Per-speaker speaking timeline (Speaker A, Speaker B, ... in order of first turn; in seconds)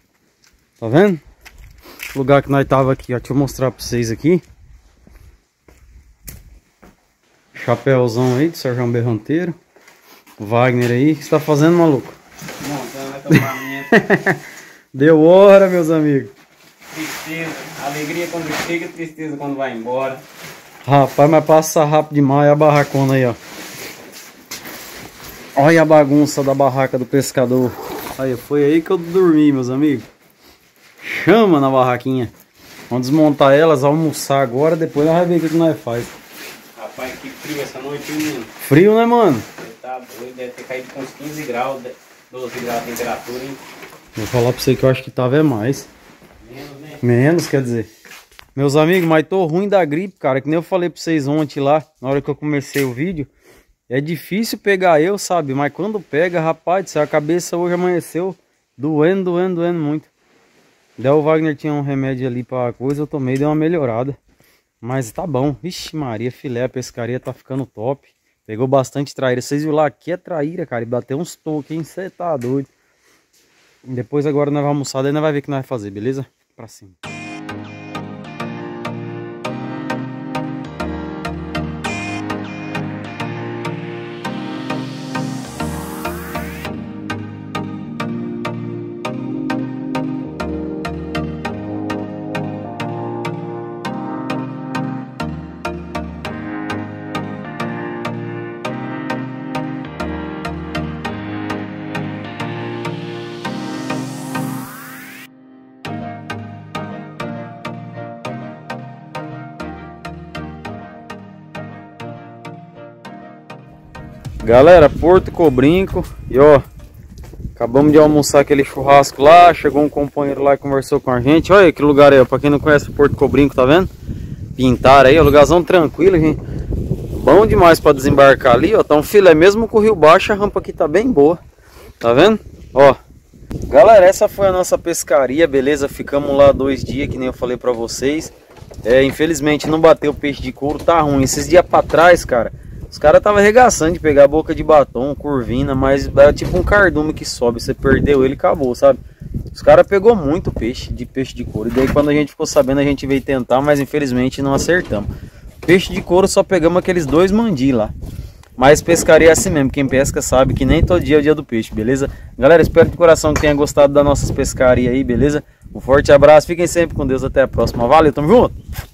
Speaker A: 0.8-1.2, 2.1-4.4, 7.5-9.6, 10.4-12.2, 13.3-14.4, 14.9-16.3, 20.8-23.4, 25.6-30.1, 31.0-32.3, 32.9-36.1, 38.6-39.5, 44.2-45.9, 47.0-47.9, 48.5-53.3, 53.9-60.1, 61.0-64.2, 64.8-72.7, 73.8-77.0, 114.4-116.7, 117.6-123.9, 124.6-126.4, 127.1-131.4, 132.0-133.0, 133.7-138.3, 138.8-149.0, 149.5-155.1, 155.6-157.9, 158.6-168.6
Speaker B: 12.6-14.0, 16.9-20.2, 36.8-38.5, 39.6-43.6, 46.4-47.0